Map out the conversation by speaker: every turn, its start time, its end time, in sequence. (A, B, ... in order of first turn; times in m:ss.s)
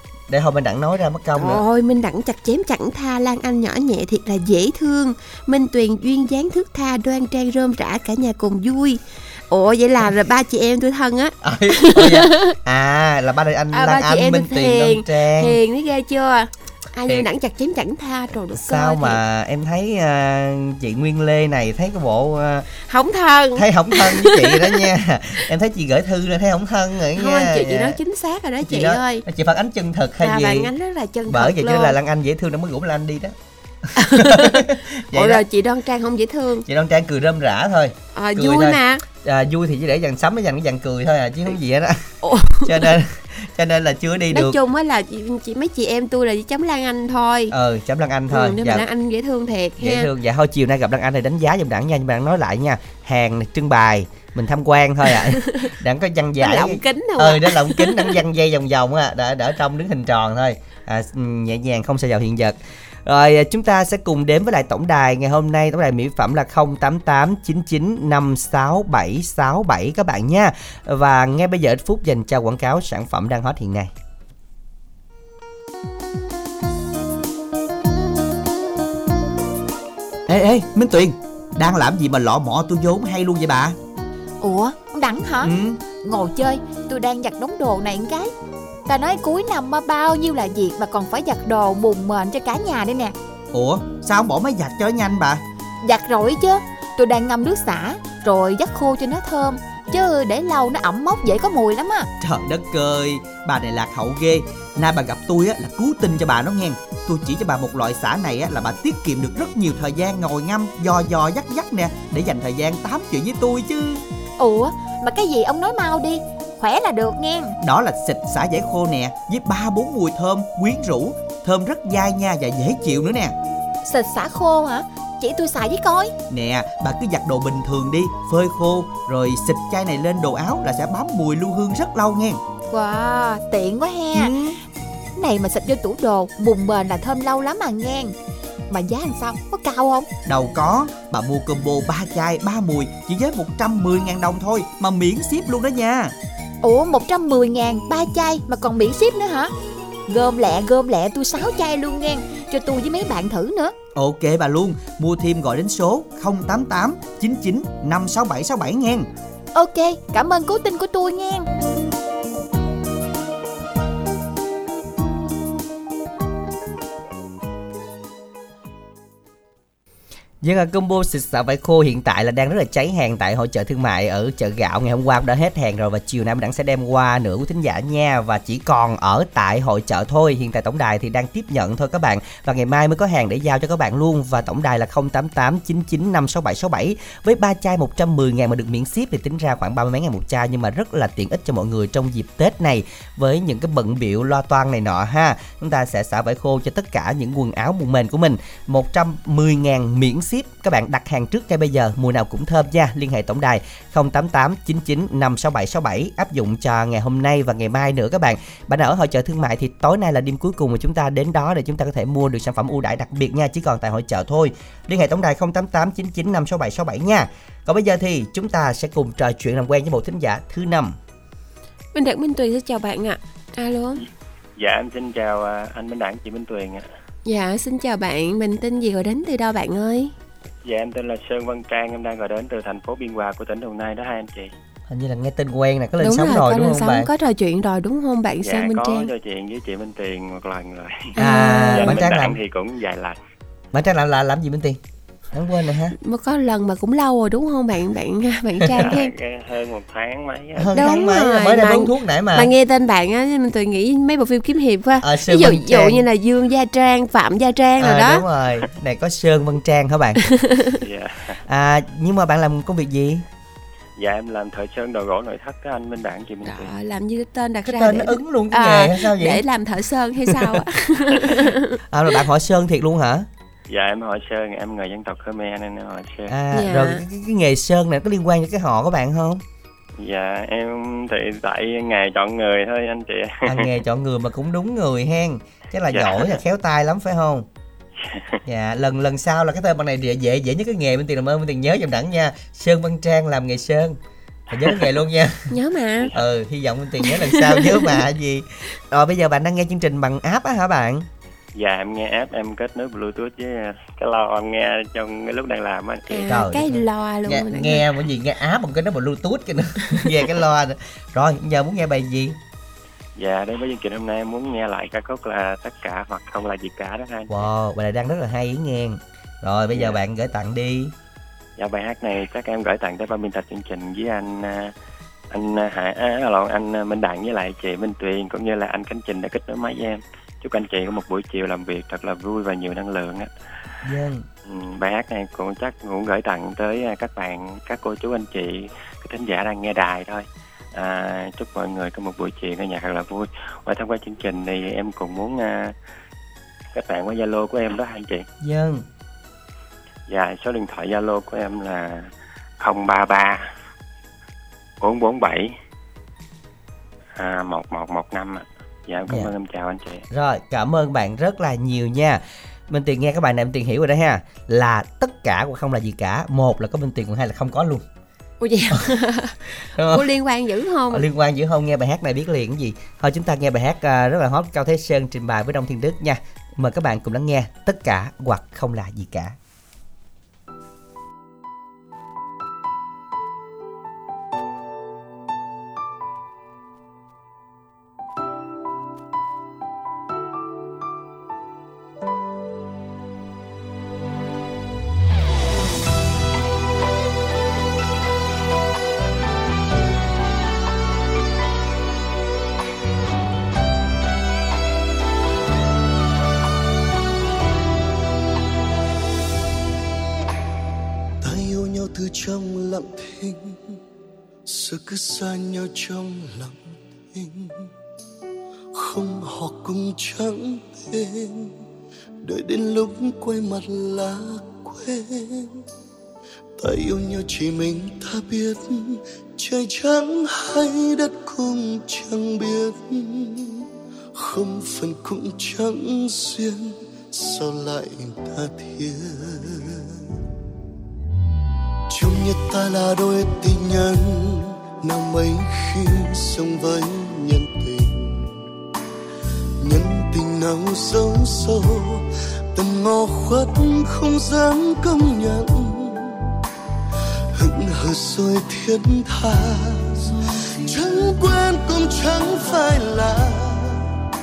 0:00.3-0:01.6 A
0:01.4-0:12.5 B
0:11.4-0:15.6 A
0:13.7-0:19.2 B
0:18.6-0:22.7 A
0:22.9-0:24.8 B
0:23.6-0:28.0 A
0:27.2-0:29.2 B
0:28.6-0:30.7 A
0:30.2-0:32.0 B
0:31.3-0:35.4 A
0:34.0-0:36.6 B
0:36.6-0:44.5 A
0:38.1-0:39.0 B
0:42.2-0:42.9 B
0:44.3-0:47.5 B
0:47.5-0:48.8 A
0:48.3-0:50.1 B
0:49.8-1:13.9 A
0:56.4-0:58.2 B
1:20.3-1:23.7 A
1:24.4-1:28.3 C
1:25.4-1:25.8 A
1:28.9-1:33.1 C
1:33.5-1:35.4 A
1:34.7-1:35.1 D
1:35.8-1:42.1 C
1:42.2-1:49.9 A
1:44.9-1:47.0 D
1:47.8-1:52.1 D
1:51.9-1:52.8 A
1:52.7-1:54.0 D
1:54.4-1:57.5 C
1:57.6-2:03.3 D
2:03.8-2:06.1 C
2:06.3-2:11.1 A
2:06.7-2:08.2 D
2:09.0-2:12.4 D
2:12.7-2:14.3 C
2:14.2-2:14.6 A
2:15.2-2:18.1 C
2:18.7-2:20.1 C
2:20.3-2:21.1 A
2:20.4-2:26.1 D
2:22.9-2:23.3 A
2:26.6-2:29.5 C
2:30.1-2:33.7 C
2:34.0-2:36.1 A
2:34.3-2:39.0 D
2:36.9-2:39.0 A
2:39.5-2:41.5 C
2:50.4-3:41.0 A
3:41.9-3:44.0 B
3:44.6-3:46.8 E
3:47.2-3:50.1 B
3:50.6-3:54.5 E
3:54.9-3:57.1 A
3:56.0-3:59.1 B
3:58.4-4:01.2 E
4:01.2-4:02.0 B
4:01.2-4:02.4 A
4:01.7-4:03.2 E
4:03.7-4:04.8 A
4:05.3-4:05.9 A
4:06.0-4:09.1 B
4:08.7-4:10.8 E
4:10.6-4:12.5 A
4:10.7-4:18.2 B
4:15.0-4:16.0 A
4:17.8-4:20.2 A
4:20.2-4:20.7 B
4:20.7-4:21.4 E
4:21.5-4:23.2 A
4:24.0-4:26.7 E
4:26.4-4:31.8 B
4:27.6-4:29.4 A
4:30.2-4:30.6 A
4:31.9-4:33.3 A
4:33.7-4:36.3 E
4:36.3-4:39.4 A
4:36.5-4:37.0 B
4:40.0-4:43.6 E
4:43.4-4:47.4 A
4:45.9-4:46.4 E
4:48.0-4:48.3 E
4:48.4-4:54.0 A
4:54.5-4:55.5 A
4:55.5-4:56.1 B
4:56.1-5:01.0 A
4:57.0-4:58.0 B
5:01.6-5:06.2 E
5:06.1-5:07.8 B
5:06.3-5:12.4 A
5:13.2-5:17.4 E
5:17.3-5:20.9 A
5:21.6-5:24.7 E
5:25.3-5:33.3 E
5:33.8-5:34.2 A
5:34.5-5:45.7 E
5:46.7-5:48.2 E
5:48.4-5:48.8 A
5:50.1-5:52.1 E
5:52.6-5:53.4 E
5:54.8-5:55.5 E
5:57.2-6:00.0 E
6:00.1-6:07.8 A
6:08.4-6:09.4 B
6:09.7-6:10.1 A
6:09.9-6:11.0 B
6:10.9-6:19.3 A
6:51.2-6:53.8 F
6:54.4-6:57.7 F
6:58.7-7:01.6 F
7:02.2-7:05.6 F
7:06.6-7:20.0 F
7:21.9-7:28.3 F
7:29.6-7:36.3 F
7:37.4-7:43.9 F